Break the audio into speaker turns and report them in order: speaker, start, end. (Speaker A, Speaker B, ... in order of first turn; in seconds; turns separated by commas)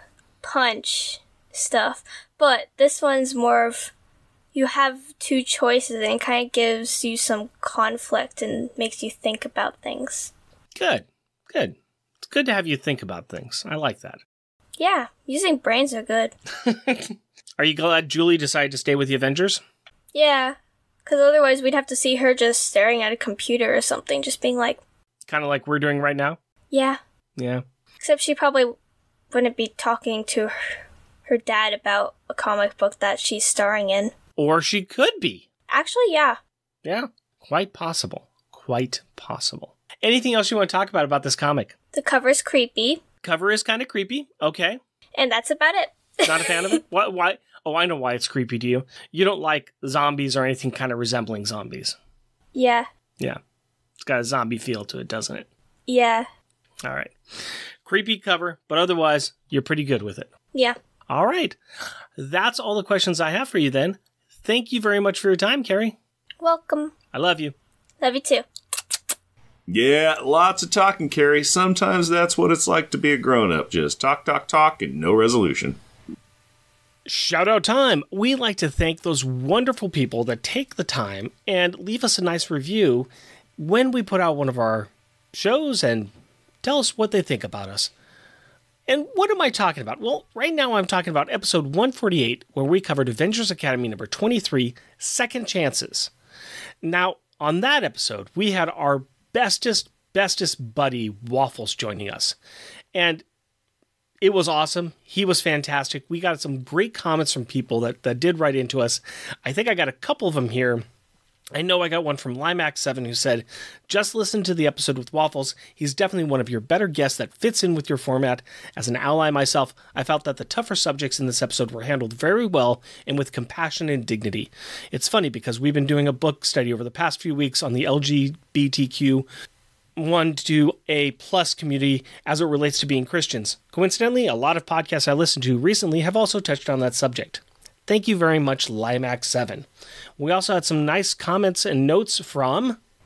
Speaker A: 0.4-3.9, Speaker A: 4.5-10.3, Speaker B: 10.7-14.2, Speaker A: 14.8-16.3, Speaker B: 16.6-19.6, Speaker A: 20.1-24.8, Speaker B: 25.3-26.4, Speaker A: 26.7-27.0, Speaker B: 27.4-27.6, Speaker A: 28.0-28.7, Speaker A: 29.3-30.6, Speaker A: 31.3-34.1, Speaker B: 34.4-35.5, Speaker A: 35.7-36.4, Speaker B: 36.8-41.7, Speaker A: 41.9-43.0, Speaker B: 43.2-44.8, Speaker A: 45.1-46.8, Speaker B: 46.2-52.0, Speaker A: 52.5-52.9, Speaker B: 54.0-55.5, Speaker A: 55.9-56.3, Speaker B: 56.8-60.3, Speaker B: 61.1-61.6, Speaker B: 62.2-65.9, Speaker A: 66.4-66.9, Speaker B: 67.1-67.5, Speaker A: 68.0-68.5, Speaker C: 69.7-75.8, Speaker B: 77.0-86.1, Speaker B: 86.6-87.9, Speaker B: 88.9-96.1, Speaker B: 96.8-102.4, Speaker B: 102.9-103.2, Speaker B: 104.2-110.8, Speaker B: 111.5-129.2, Speaker B: 129.9-139.7, Speaker B: 140.2-142.8